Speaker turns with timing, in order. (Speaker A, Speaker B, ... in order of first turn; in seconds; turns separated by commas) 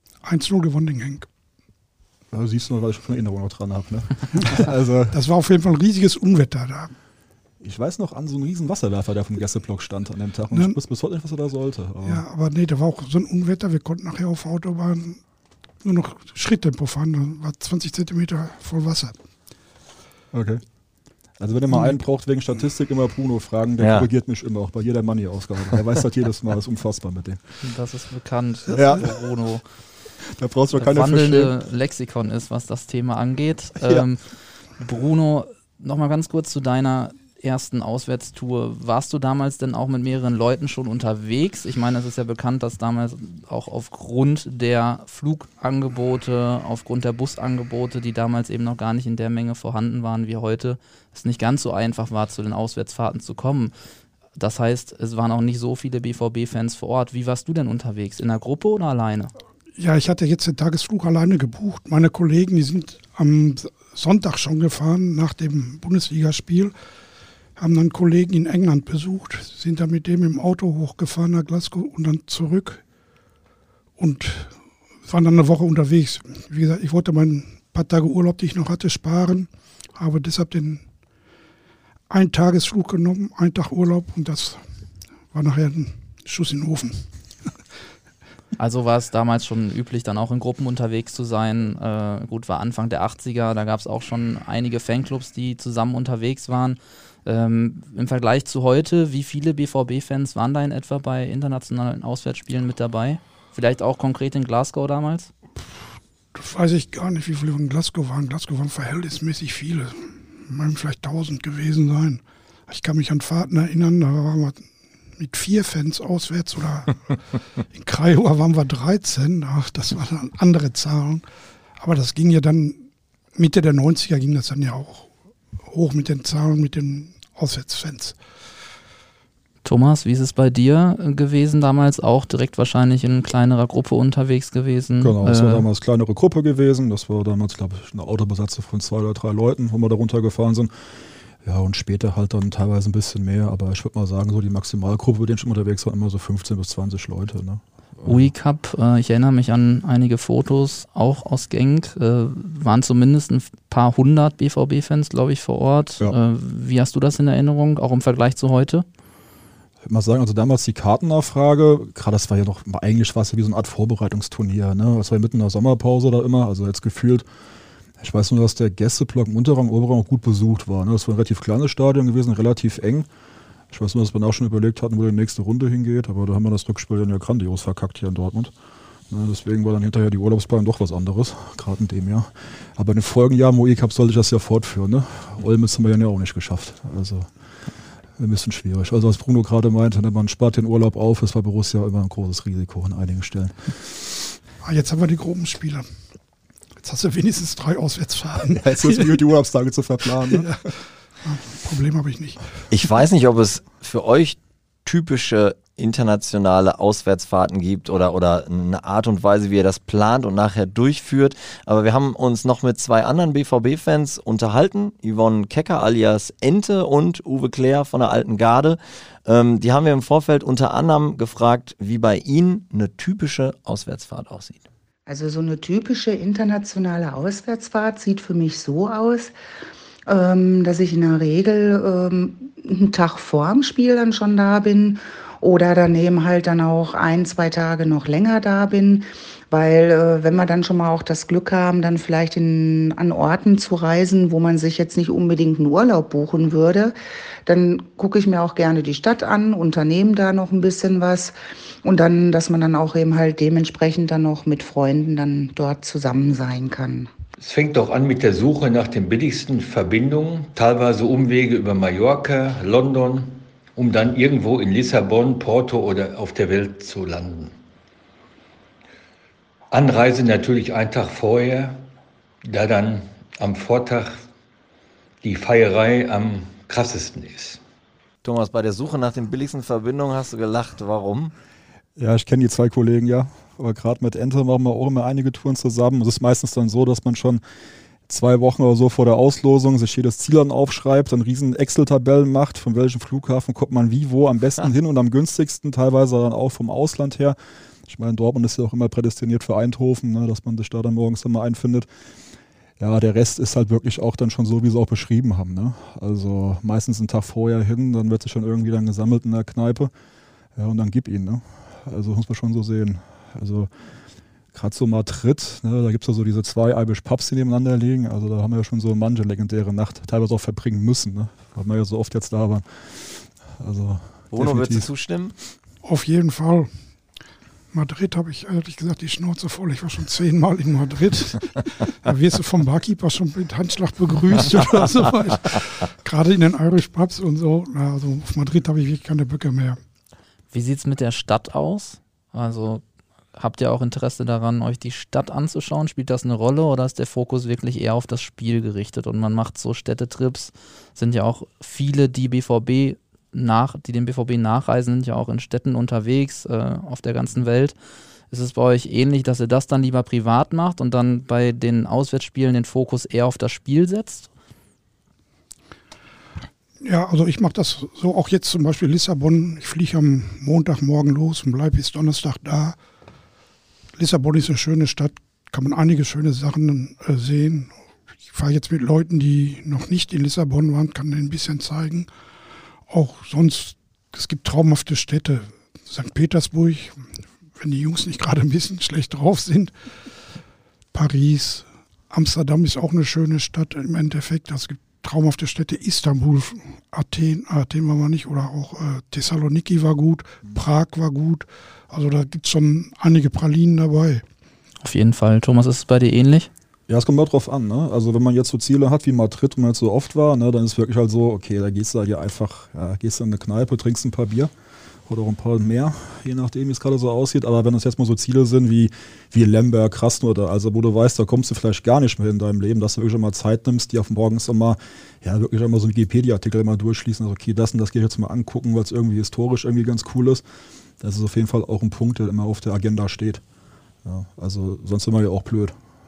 Speaker A: 0.2-1.3, Speaker B: 2.3-5.2, Speaker A: 5.1-6.9, Speaker B: 7.6-12.2, Speaker A: 12.0-15.2, Speaker A: 15.8-19.2, Speaker B: 20.3-20.6, Speaker B: 21.4-27.4, Speaker C: 23.8-24.1, Speaker D: 27.6-29.6, Speaker B: 28.7-29.1, Speaker B: 30.2-31.6, Speaker D: 30.8-34.3, Speaker B: 33.8-34.1, Speaker D: 34.8-53.7, Speaker D: 54.4-59.3, Speaker A: 59.8-66.7, Speaker A: 67.6-72.8, Speaker A: 74.0-80.8, Speaker A: 82.1-84.6, Speaker A: 85.3-87.5, Speaker D: 88.6-105.3, Speaker A: 106.3-117.2, Speaker A: 117.7-121.3, Speaker A: 121.8-125.1, Speaker A: 125.6-128.2, Speaker D: 129.6-135.7, Speaker B: 135.0-140.7, Speaker B: 141.4-148.3, Speaker D: 148.1-158.9, Speaker B: 159.8-167.3, Speaker B: 168.0-173.1, Speaker B: 173.7-178.5, Speaker B: 179.1-187.3, Speaker B: 188.2-194.3, Speaker A: 194.6-195.9, Speaker A: 196.8-199.2, Speaker B: 198.5-200.6, Speaker A: 200.2-202.4, Speaker C: 202.7-224.7, Speaker E: 225.1-229.3, Speaker E: 230.1-246.9, Speaker E: 247.5-257.1, Speaker F: 257.4-267.5, Speaker F: 269.7-271.9, Speaker F: 272.4-274.2, Speaker F: 275.2-277.6, Speaker C: 278.2-281.3, Speaker B: 282.0-287.4, Speaker B: 288.1-301.9, Speaker B: 302.8-309.9, Speaker B: 310.6-313.7, Speaker B: 314.5-324.9, Speaker C: 324.3-325.4, Speaker A: 325.8-326.7, Speaker A: 327.7-339.8, Speaker D: 340.5-342.8, Speaker D: 343.4-357.7, Speaker D: 358.3-364.3, Speaker A: 366.8-372.8, Speaker A: 374.0-377.7, Speaker A: 378.3-382.1, Speaker A: 382.9-387.0, Speaker A: 387.6-389.7, Speaker A: 390.9-404.2, Speaker D: 404.8-406.5, Speaker B: 406.9-414.5, Speaker B: 415.1-430.4, Speaker B: 431.0-433.4, Speaker B: 434.0-435.8